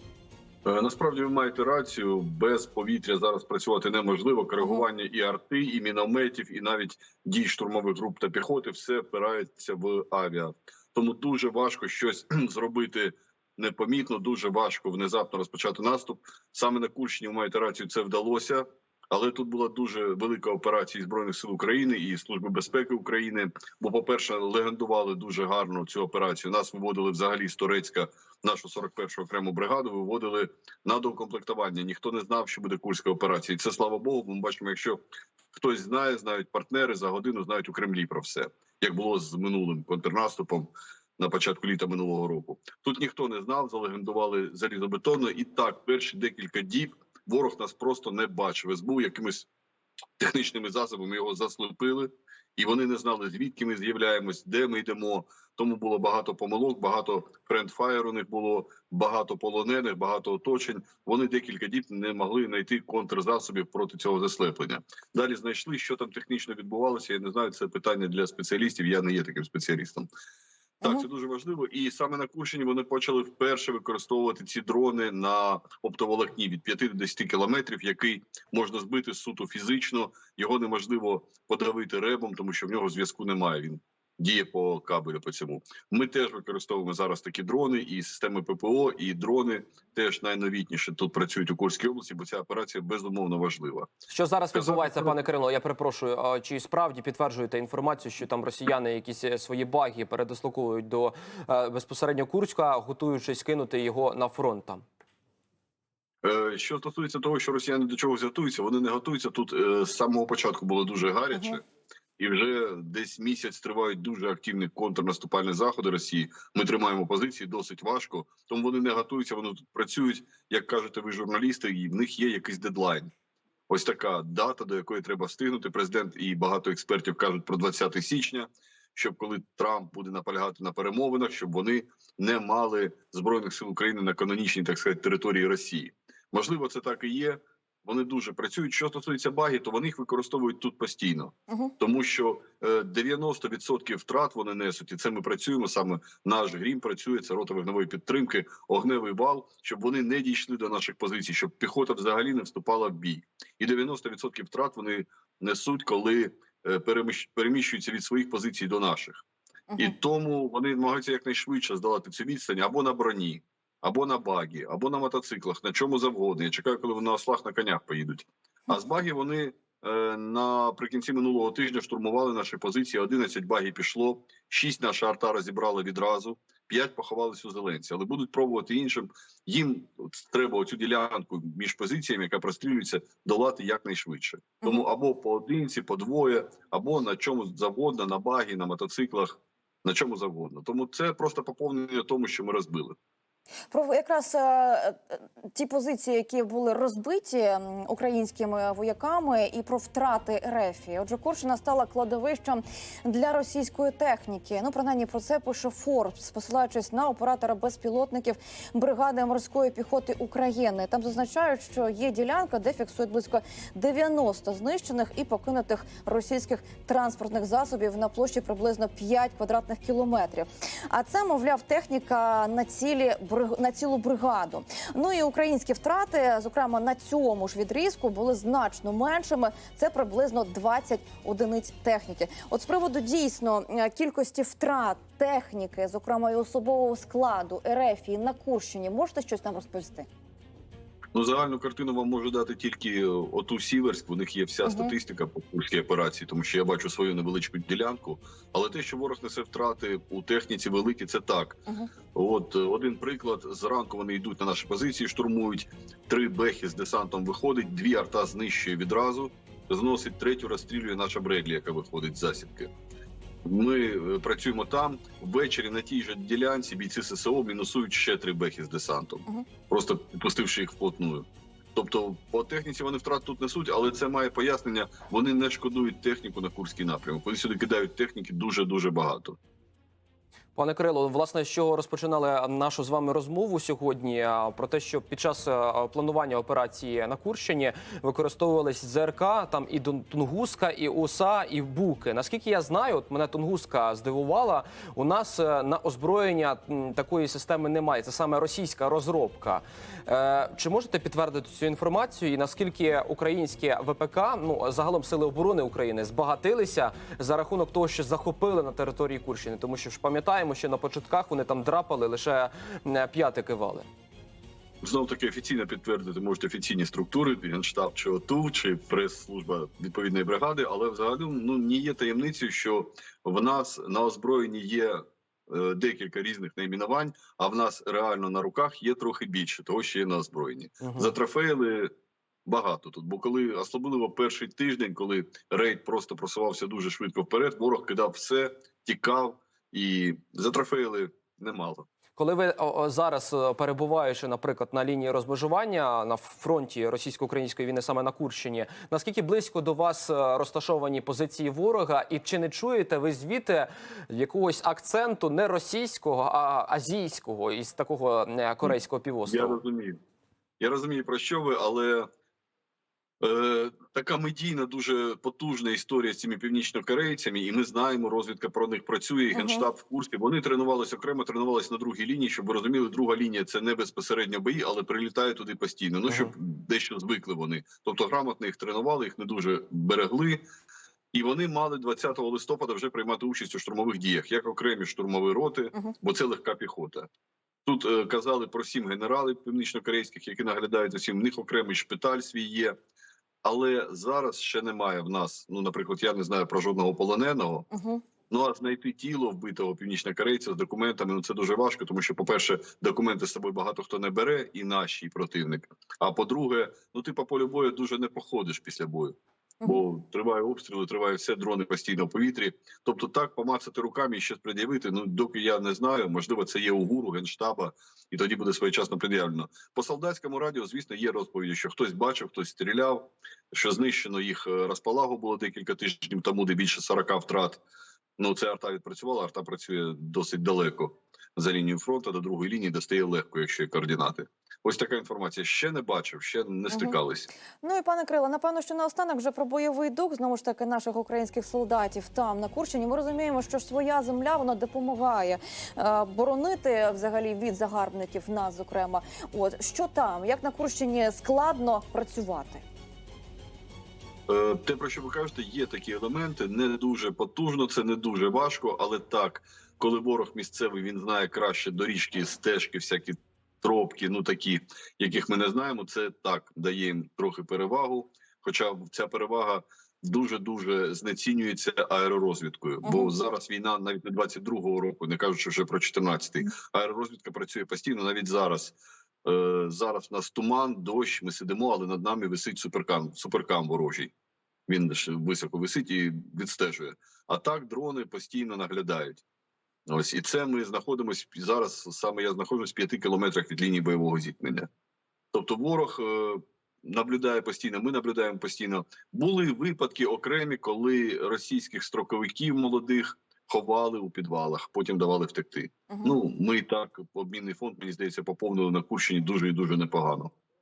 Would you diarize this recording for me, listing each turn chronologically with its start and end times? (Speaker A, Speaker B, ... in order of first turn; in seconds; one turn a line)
Speaker A: 0.7-35.0
Speaker A: 35.5-49.5
Speaker A: 50.2-70.1
Speaker A: 70.8-93.9
Speaker B: 94.1-104.8
Speaker A: 94.5-95.2
Speaker A: 106.2-111.6
Speaker A: 112.2-123.1
Speaker A: 123.7-159.2
Speaker A: 159.8-193.0
Speaker C: 193.7-240.1
Speaker A: 241.1-251.6
Speaker C: 244.6-244.9
Speaker A: 252.1-262.7
Speaker A: 263.4-279.4
Speaker B: 280.6-313.9
Speaker A: 314.8-331.9
Speaker B: 330.8-331.1
Speaker A: 332.5-341.9
Speaker B: 342.2-359.6
Speaker A: 359.3-360.0
Speaker A: 360.6-362.1
Speaker A: 363.2-380.4
Speaker C: 369.4-369.6
Speaker A: 381.1-387.1
Speaker A: 387.7-392.8
Speaker A: 393.4-397.7
Speaker C: 397.7-398.0
Speaker A: 398.3-427.6
Speaker A: 428.2-437.3
Speaker C: 437.6-452.6
Speaker A: 454.3-484.1
Speaker C: 472.9-473.2
Speaker A: 484.7-489.2
Speaker A: 489.9-494.7
Speaker A: 495.3-510.3
Speaker C: 505.9-506.2